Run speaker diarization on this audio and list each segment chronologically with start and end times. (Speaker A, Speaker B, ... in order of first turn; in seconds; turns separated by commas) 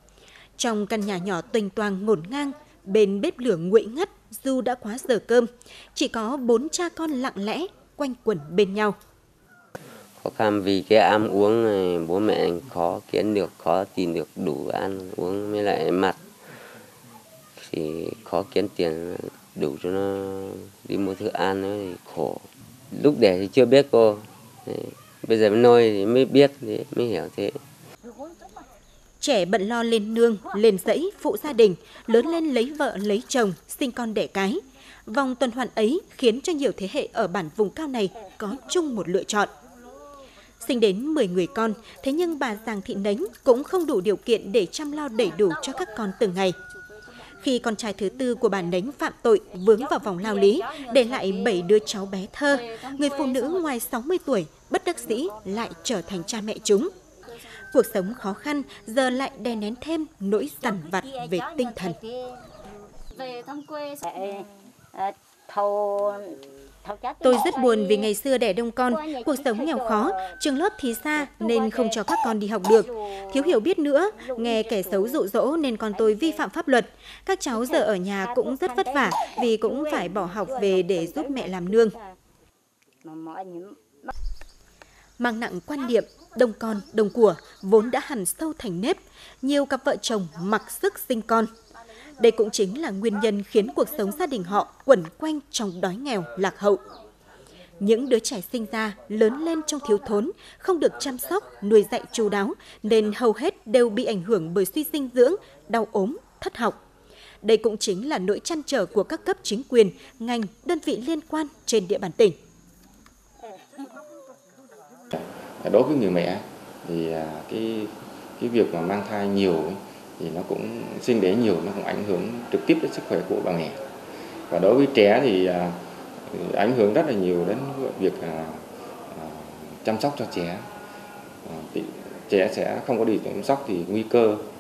Speaker A: 0.6-9.0, Speaker B: 10.2-16.2, Speaker B: 17.6-27.6, Speaker A: 29.2-39.5, Speaker A: 40.6-46.6, Speaker A: 47.4-56.9, Speaker A: 57.7-62.0, Speaker C: 60.6-62.2, Speaker C: 63.2-68.1, Speaker A: 67.2-82.0, Speaker C: 68.9-70.3, Speaker C: 71.2-72.0, Speaker C: 72.7-73.6, Speaker C: 74.2-75.2, Speaker C: 75.9-76.4, Speaker C: 77.6-82.1, Speaker C: 83.0-84.1, Speaker A: 85.2-91.5, Speaker A: 92.2-96.8, Speaker A: 97.8-106.8, Speaker A: 107.4-112.4, Speaker D: 115.1-123.8, Speaker D: 124.5-130.7, Speaker D: 131.4-134.4